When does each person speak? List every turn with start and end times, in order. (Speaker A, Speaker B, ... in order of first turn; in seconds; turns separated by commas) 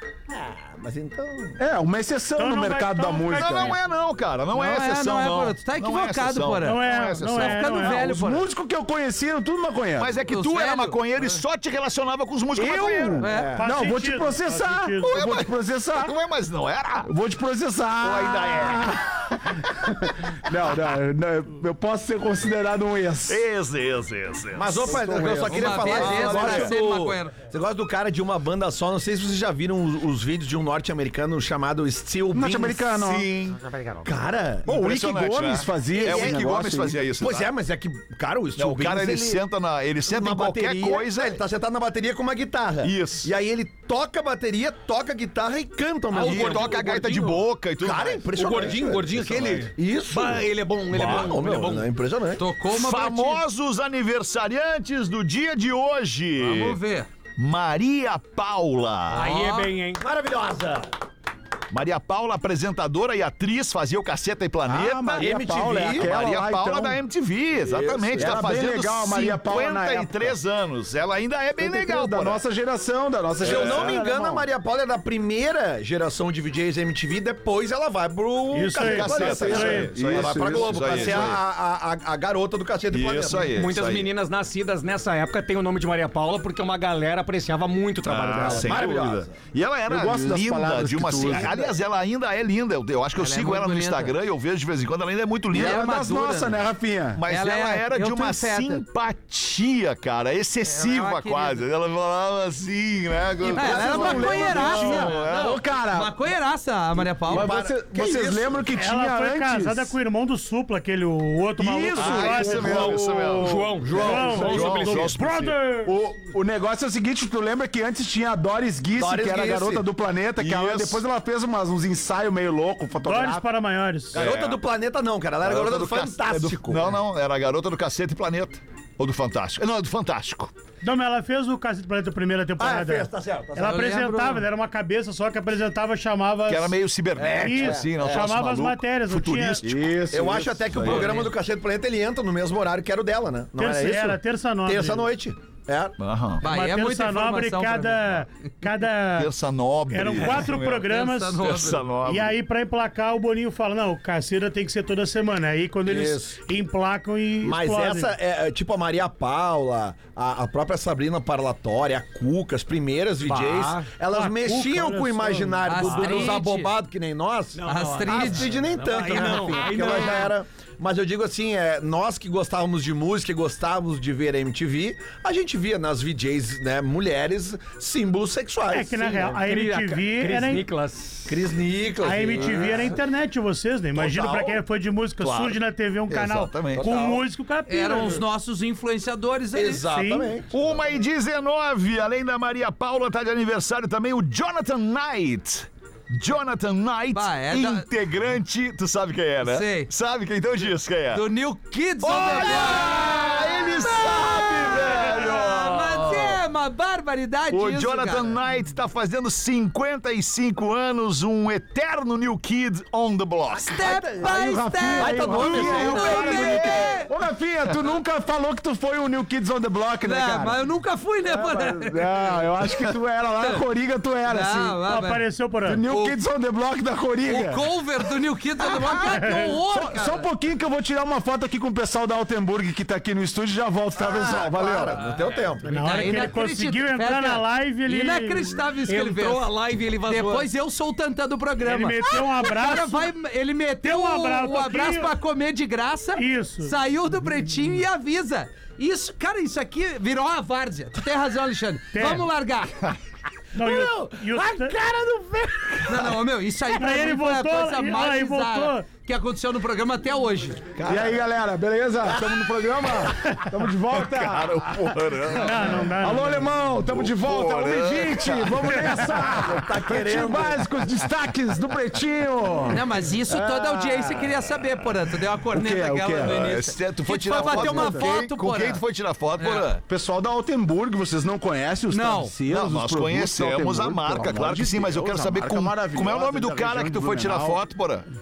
Speaker A: 0.3-1.6, Speaker B: 1.6-3.8, Speaker C: 2.4-3.8, Speaker D: 3.3-7.8, Speaker E: 4.5-8.5, Speaker C: 6.6-8.1, Speaker B: 7.8-10.1, Speaker D: 10.0-13.2, Speaker E: 10.3-11.4, Speaker B: 12.6-16.1, Speaker E: 13.2-13.6, Speaker A: 13.2-13.6, Speaker C: 13.6-15.2, Speaker D: 15.0-17.1, Speaker B: 17.0-23.4, Speaker D: 18.0-19.0, Speaker D: 23.3-26.7, Speaker A: 24.5-32.9, Speaker B: 24.8-26.7, Speaker E: 25.4-27.4, Speaker B: 32.3-33.3, Speaker D: 32.9-33.6, Speaker A: 34.0-34.8, Speaker B: 34.6-37.0, Speaker D: 34.7-37.5, Speaker A: 36.0-36.4, Speaker A: 37.2-39.4, Speaker D: 38.5-41.4, Speaker A: 40.1-47.0, Speaker D: 42.8-43.3, Speaker F: 46.1-47.4, Speaker D: 46.1-48.3, Speaker A: 47.8-52.4, Speaker F: 48.3-51.9, Speaker D: 50.9-51.3, Speaker E: 52.4-53.4, Speaker D: 52.7-56.8, Speaker E: 56.4-57.1, Speaker D: 57.4-59.4, Speaker F: 59.1-60.0, Speaker A: 60.0-60.9, Speaker D: 61.7-72.4, Speaker B: 64.7-67.0, Speaker A: 65.2-66.1, Speaker A: 67.6-68.5, Speaker B: 68.1-70.4, Speaker B: 71.6-74.5, Speaker D: 73.4-74.0, Speaker A: 73.4-83.6, Speaker C: 78.5-80.0, Speaker D: 78.8-81.4, Speaker B: 78.8-81.3, Speaker D: 82.9-84.1, Speaker F: 83.5-88.9, Speaker D: 88.0-96.0, Speaker A: 88.4-89.3, Speaker B: 89.9-91.6, Speaker A: 91.3-91.7, Speaker E: 93.2-94.1, Speaker B: 95.5-97.2, Speaker E: 95.5-96.6, Speaker D: 97.2-105.6, Speaker E: 97.3-98.8, Speaker E: 100.7-101.6, Speaker B: 103.4-106.2, Speaker E: 103.5-107.7, Speaker A: 103.7-104.3, Speaker A: 107.2-108.7, Speaker B: 107.3-109.9, Speaker C: 108.7-112.9, Speaker D: 111.6-115.5, Speaker B: 111.9-113.5, Speaker F: 112.5-115.5, Speaker C: 113.9-115.9, Speaker B: 115.8-123.4, Speaker A: 119.0-119.8, Speaker D: 120.4-121.0, Speaker C: 123.0-124.2, Speaker D: 124.1-124.6, Speaker A: 124.1-127.0, Speaker D: 125.4-130.5, Speaker C: 130.8-136.7, Speaker A: 132.6-133.8, Speaker E: 133.6-134.4, Speaker D: 136.5-139.8, Speaker A: 137.2-138.3, Speaker C: 137.4-139.7, Speaker B: 139.6-141.2, Speaker A: 140.1-145.9, Speaker D: 140.8-141.1, Speaker E: 140.8-141.3, Speaker C: 143.6-145.1, Speaker D: 146.0-146.4, Speaker E: 146.4-148.2, Speaker C: 146.4-149.3, Speaker D: 149.1-152.4, Speaker C: 149.9-158.1, Speaker E: 150.2-151.8, Speaker A: 155.8-156.4, Speaker A: 157.4-179.3, Speaker F: 163.2-164.0, Speaker C: 164.1-166.0, Speaker E: 165.7-166.7, Speaker F: 165.9-166.3, Speaker F: 167.6-170.4, Speaker E: 167.7-168.5, Speaker E: 169.1-170.3, Speaker C: 178.7-180.7, Speaker F: 179.2-181.4, Speaker A: 181.3-183.0, Speaker C: 182.0-188.2, Speaker D: 184.0-184.5, Speaker D: 185.2-187.2, Speaker A: 186.8-187.2, Speaker E: 187.7-189.8, Speaker A: 189.5-190.9, Speaker C: 189.9-190.3, Speaker D: 190.5-201.2, Speaker E: 197.1-197.8, Speaker E: 199.4-199.9, Speaker E: 201.1-208.4, Speaker D: 202.0-206.4, Speaker A: 203.0-203.4, Speaker A: 204.3-205.1, Speaker D: 207.5-213.9, Speaker E: 213.6-217.1, Speaker A: 213.8-214.3, Speaker B: 214.2-220.6, Speaker A: 214.9-216.7, Speaker D: 215.5-216.9, Speaker E: 220.0-222.8, Speaker B: 221.3-224.8, Speaker E: 224.3-225.2, Speaker C: 224.8-225.8, Speaker B: 225.6-227.7, Speaker E: 227.2-230.3, Speaker C: 229.0-229.5, Speaker B: 229.5-235.0, Speaker A: 234.0-236.2, Speaker C: 235.6-238.7, Speaker E: 235.6-239.5, Speaker F: 238.8-240.5, Speaker E: 240.1-252.7, Speaker C: 241.6-243.1, Speaker C: 243.8-245.1, Speaker C: 246.2-246.7, Speaker C: 251.9-252.3, Speaker C: 253.5-254.7, Speaker A: 253.6-256.1, Speaker E: 255.8-260.6, Speaker C: 256.8-258.9, Speaker D: 260.8-261.1, Speaker B: 260.9-274.3, Speaker D: 263.9-265.9, Speaker C: 265.3-266.5, Speaker D: 266.8-269.3, Speaker A: 269.2-270.7, Speaker E: 272.7-278.8, Speaker B: 275.5-276.5, Speaker D: 276.2-279.8, Speaker B: 277.3-278.1, Speaker E: 279.4-279.7, Speaker B: 279.9-287.6, Speaker E: 281.9-282.3, Speaker D: 282.5-288.1